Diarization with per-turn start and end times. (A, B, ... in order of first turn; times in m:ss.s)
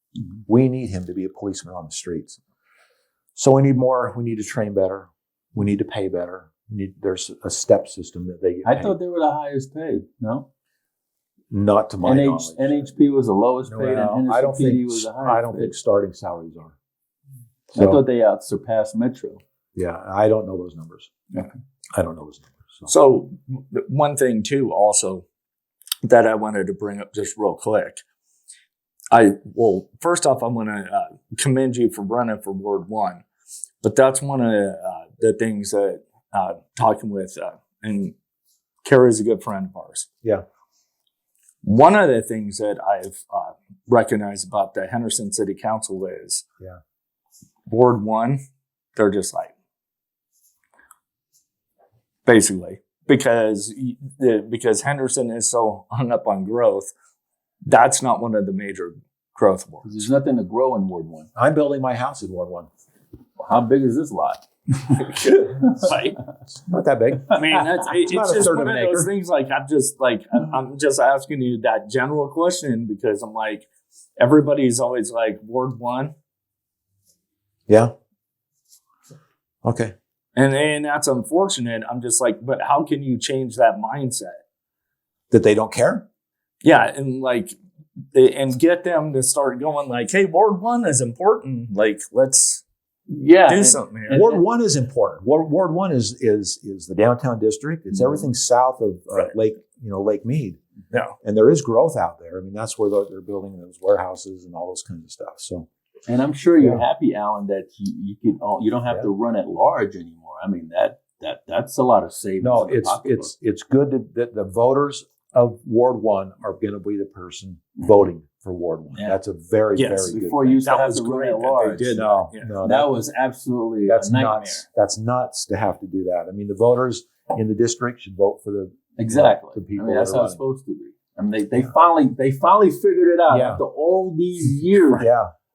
0:00.5-0:02.4 A
0:03.3-0:09.0 A
0:08.6-0:10.4 B
0:11.5-0:12.9 A
0:12.0-0:15.7 B
0:13.7-0:16.8 A
0:17.7-0:19.4 B
0:17.8-0:18.0 A
0:19.8-0:21.1 A
0:21.9-0:22.9 A
0:22.9-0:25.2 C
0:26.0-0:28.0 C
0:29.1-0:33.2 C
0:33.8-0:38.1 C
0:38.8-0:40.1 C
0:41.6-0:46.4 C
0:47.7-0:48.4 C
0:49.0-0:49.5 C
0:52.2-0:56.9 C
0:57.6-1:00.1 C
0:59.8-1:01.3 B
1:01.4-1:02.7 A
1:03.4-1:05.8 B
1:05.0-1:06.2 C
1:06.6-1:09.1 A
1:07.3-1:16.1 C
1:17.7-1:17.9 A
1:19.6-1:19.9 A
1:20.4-1:24.4 C
1:25.3-1:26.0 A
1:26.6-1:27.5 C
1:28.1-1:32.6 C
1:33.1-1:34.4 B
1:33.5-1:34.2 C
1:34.1-1:40.6 A
1:40.9-1:41.2 C
1:41.2-1:45.7 A
1:46.1-1:53.3 B
1:52.4-2:00.6 A
1:59.8-2:02.5 C
2:00.1-2:02.0 B
2:01.9-2:03.0 A
2:02.6-2:04.6 B
2:03.9-2:10.4 A
2:09.0-2:15.1 B
2:13.3-2:13.6 A
2:15.0-2:15.3 A